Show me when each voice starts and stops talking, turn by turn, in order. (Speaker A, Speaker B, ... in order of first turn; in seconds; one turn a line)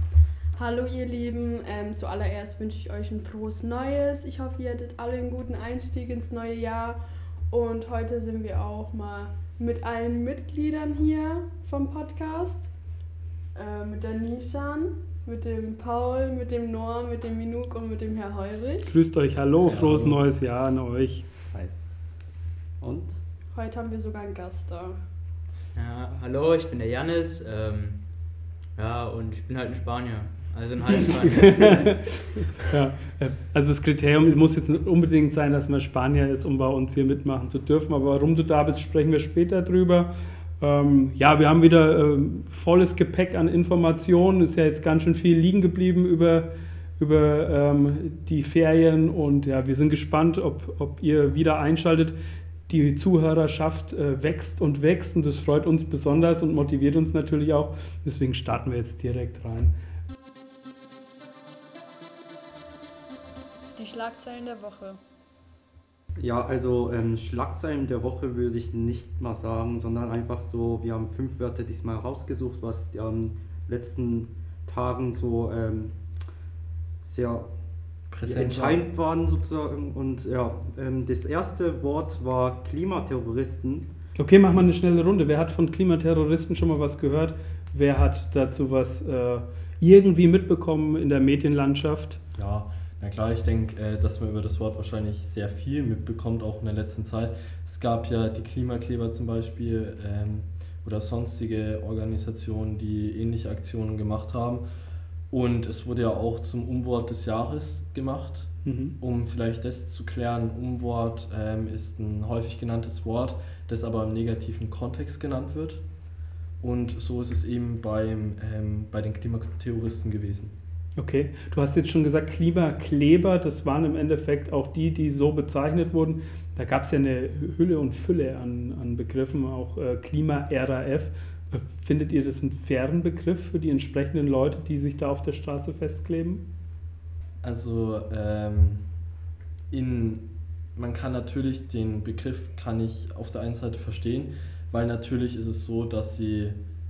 Speaker A: 0.6-12.7
Speaker A: 13.5-18.9
Speaker B: 18.9-21.2
Speaker C: 19.6-20.2
Speaker D: 22.8-23.2
Speaker A: 23.5-25.0
Speaker E: 25.7-28.0
Speaker E: 28.7-32.0
Speaker B: 31.3-52.1
Speaker B: 52.7-59.7
Speaker A: 63.8-65.0
Speaker D: 66.2-76.0
Speaker D: 77.0-77.5
Speaker C: 78.1-78.8
Speaker D: 78.2-83.9
Speaker B: 84.2-92.2
Speaker C: 92.3-104.6
Speaker C: 105.3-115.8
Speaker B: 108.6-109.0
Speaker C: 116.6-120.5
Speaker B: 121.0-136.4
Speaker C: 137.4-138.9
Speaker C: 139.7-146.6